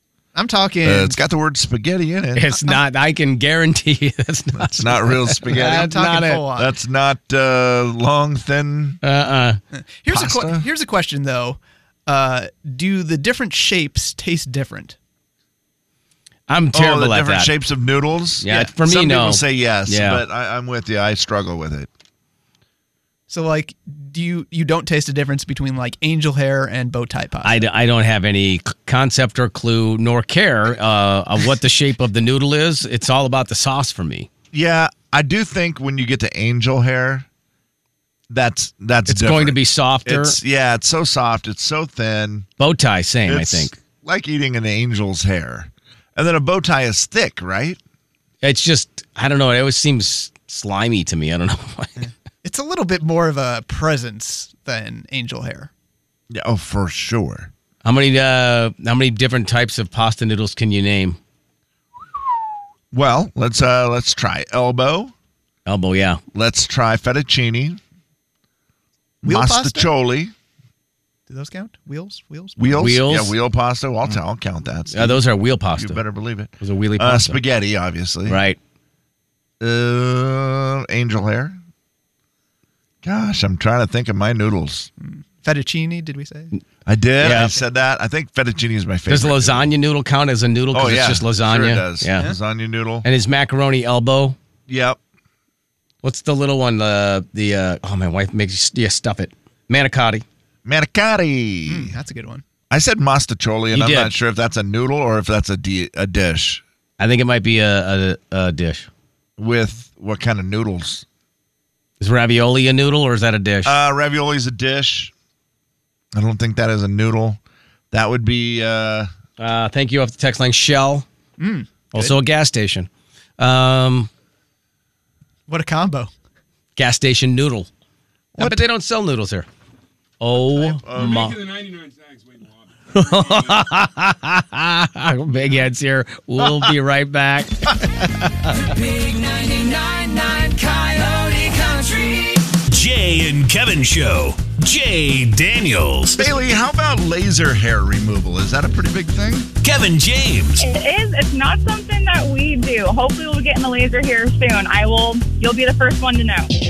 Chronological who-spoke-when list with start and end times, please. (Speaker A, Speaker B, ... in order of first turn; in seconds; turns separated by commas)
Speaker A: 0.3-1.2, Speaker B: 0.8-2.5, Speaker C: 2.3-6.4, Speaker B: 4.6-5.9, Speaker A: 5.5-6.8, Speaker B: 6.5-9.0, Speaker C: 9.0-9.6, Speaker A: 9.7-14.9, Speaker B: 10.1-10.7, Speaker C: 16.5-17.5, Speaker B: 16.7-21.9, Speaker C: 18.4-20.2, Speaker A: 23.3-27.6, Speaker C: 27.4-34.3, Speaker B: 34.5-37.3, Speaker B: 38.3-42.5, Speaker C: 39.1-40.4, Speaker C: 42.6-43.8, Speaker B: 43.2-47.8, Speaker C: 48.4-52.0, Speaker A: 52.0-55.7, Speaker B: 56.3-57.5, Speaker C: 57.8-61.2, Speaker B: 62.9-65.1, Speaker C: 65.7-66.2, Speaker B: 66.3-67.8, Speaker B: 69.2-70.3, Speaker A: 69.2-69.9, Speaker A: 71.3-72.9, Speaker B: 72.6-78.4, Speaker C: 72.8-73.3, Speaker C: 74.9-76.0, Speaker C: 76.6-77.4, Speaker C: 78.3-78.6, Speaker B: 79.6-81.6, Speaker B: 83.0-84.9, Speaker A: 85.0-86.5, Speaker B: 86.8-89.7, Speaker C: 87.2-87.5, Speaker C: 89.1-92.3, Speaker B: 90.7-93.1, Speaker C: 93.0-94.3, Speaker B: 94.7-95.0, Speaker C: 96.0-100.2, Speaker B: 100.6-102.0, Speaker A: 101.7-102.4, Speaker B: 102.7-106.6, Speaker C: 103.7-104.1, Speaker C: 107.0-108.9, Speaker B: 109.4-111.0, Speaker C: 112.0-113.8, Speaker B: 113.6-115.1, Speaker B: 116.1-117.4, Speaker B: 117.9-119.1, Speaker C: 119.4-121.1, Speaker A: 121.4-122.2, Speaker C: 121.9-124.1, Speaker A: 125.5-126.1, Speaker C: 126.8-127.7, Speaker C: 128.4-129.5, Speaker C: 130.2-131.4, Speaker B: 130.9-131.2, Speaker D: 130.9-133.7, Speaker C: 132.9-138.6, Speaker E: 138.5-142.5, Speaker F: 142.7-146.3, Speaker B: 146.1-149.5, Speaker F: 149.6-150.6, Speaker G: 150.6-156.5